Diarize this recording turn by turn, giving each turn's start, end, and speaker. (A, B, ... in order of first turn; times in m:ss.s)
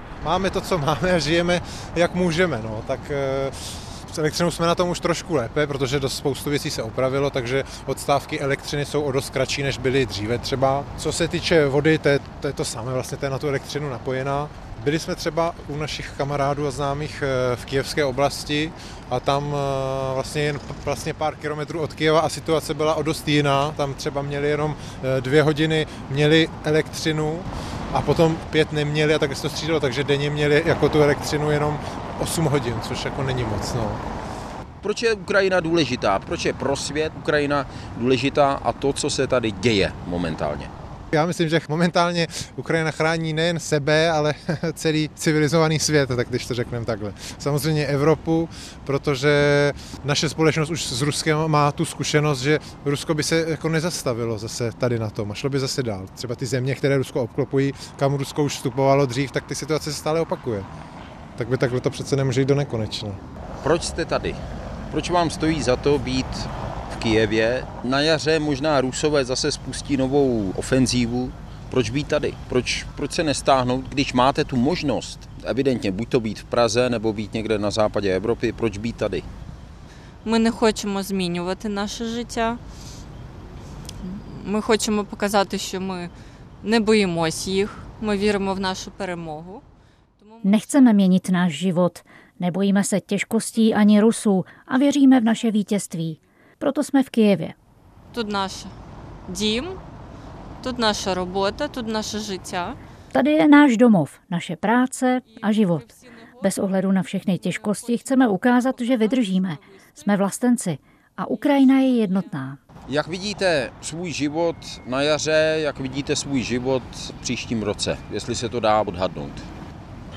0:00.2-0:34.0 A
0:34.8-0:40.7 B
0:41.1-1:00.7 A
1:01.4-1:03.2 A
1:03.6-1:04.4 B
1:04.9-1:19.3 B
1:20.2-1:22.6 C
1:24.0-1:26.1 C
1:26.6-1:29.6 C
1:30.4-1:37.5 D
1:30.6-1:30.9 C
1:38.1-1:38.7 C
1:39.3-1:39.8 C
1:40.6-1:42.8 C
1:43.1-1:52.6 D
1:52.9-1:59.5 B